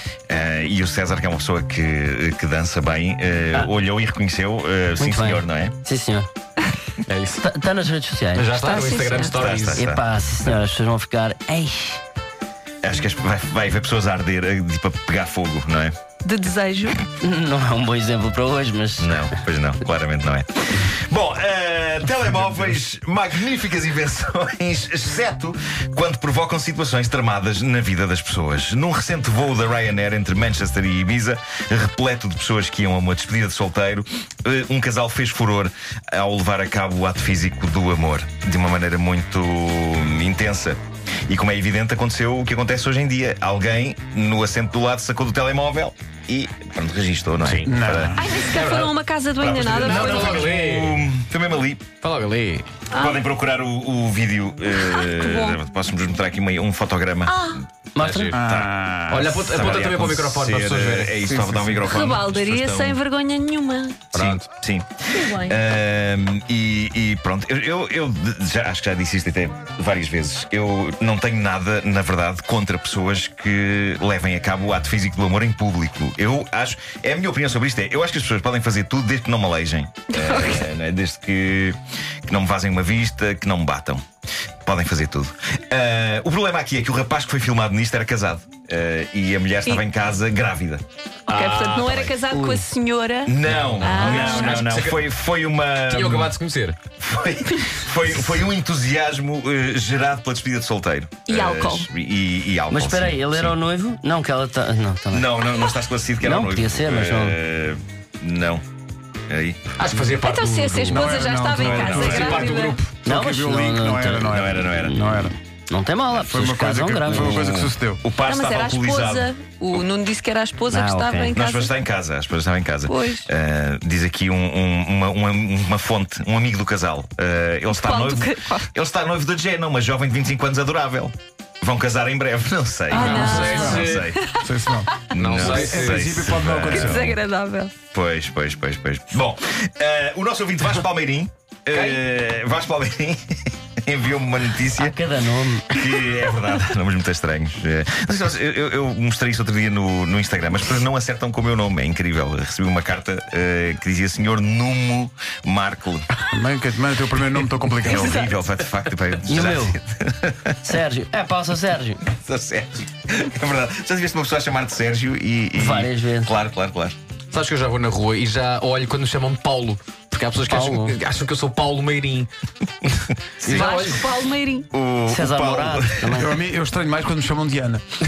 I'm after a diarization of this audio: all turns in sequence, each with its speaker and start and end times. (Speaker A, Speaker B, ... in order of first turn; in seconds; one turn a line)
Speaker A: 0.3-5.8
Speaker B: 5.0-6.3
Speaker C: 7.0-7.4
Speaker B: 7.4-8.5
Speaker C: 8.3-9.8
Speaker D: 8.6-9.5
Speaker A: 9.3-10.1
Speaker B: 9.7-12.0
Speaker A: 12.8-15.9
Speaker D: 16.2-17.0
Speaker B: 17.2-19.2
Speaker A: 19.0-48.1
Speaker E: 47.6-48.4
Speaker D: 48.1-50.4
Speaker C: 48.4-48.9
Speaker A: 49.4-51.9
Speaker C: 49.7-51.0
Speaker C: 52.0-52.8
Speaker D: 52.9-53.2
Speaker A: 52.9-58.7
Speaker D: 54.7-55.6
Speaker D: 57.2-57.6
Speaker B: 57.9-58.3
Speaker E: 58.3-59.4
Speaker C: 59.1-61.2
Speaker A: 59.4-63.0
Speaker E: 61.2-61.8
Speaker D: 61.9-64.1
Speaker C: 64.1-64.4
Speaker A: 64.1-84.0
Speaker D: 65.1-65.6
Speaker D: 80.1-80.7
Speaker A: 84.6-90.8
Speaker D: 91.3-94.7
Speaker C: 91.3-92.2
Speaker B: 92.3-92.6
Speaker A: 93.2-96.3
Speaker C: 93.5-95.1
Speaker C: 95.9-96.8
Speaker A: 97.0-103.6
Speaker D: 101.2-101.9
Speaker B: 102.7-105.4
Speaker A: 105.1-108.6
Speaker B: 106.2-107.4
Speaker A: 109.3-109.6
Speaker C: 109.8-111.3
Speaker D: 110.2-112.8
Speaker E: 110.8-112.3
Speaker A: 111.5-112.5
Speaker C: 112.0-113.0
Speaker E: 113.0-115.3
Speaker B: 113.0-117.6
Speaker A: 114.3-115.0
Speaker E: 116.1-118.0
Speaker A: 117.2-119.3
Speaker D: 118.2-121.7
Speaker B: 120.7-121.3
Speaker A: 121.3-134.2
Speaker D: 122.8-123.3
Speaker D: 127.7-128.7
Speaker D: 132.9-135.0
Speaker C: 132.9-134.1
Speaker E: 133.0-133.9
Speaker E: 134.4-137.1
Speaker A: 135.1-137.2
Speaker C: 135.1-136.1
Speaker D: 136.7-137.7
Speaker A: 137.9-144.9
Speaker C: 141.7-142.0
Speaker B: 144.8-146.2
Speaker A: 145.6-156.1
Speaker E: 156.3-158.3
Speaker A: 157.8-160.6
Speaker D: 157.9-158.2
Speaker B: 159.3-159.8
Speaker B: 160.6-162.0
Speaker A: 162.1-167.0
Speaker B: 165.5-166.3
Speaker C: 167.3-172.3
Speaker B: 170.4-171.0
Speaker C: 173.4-174.2
Speaker D: 173.4-174.7
Speaker A: 174.7-176.2
Speaker B: 175.1-176.4
Speaker E: 176.2-177.8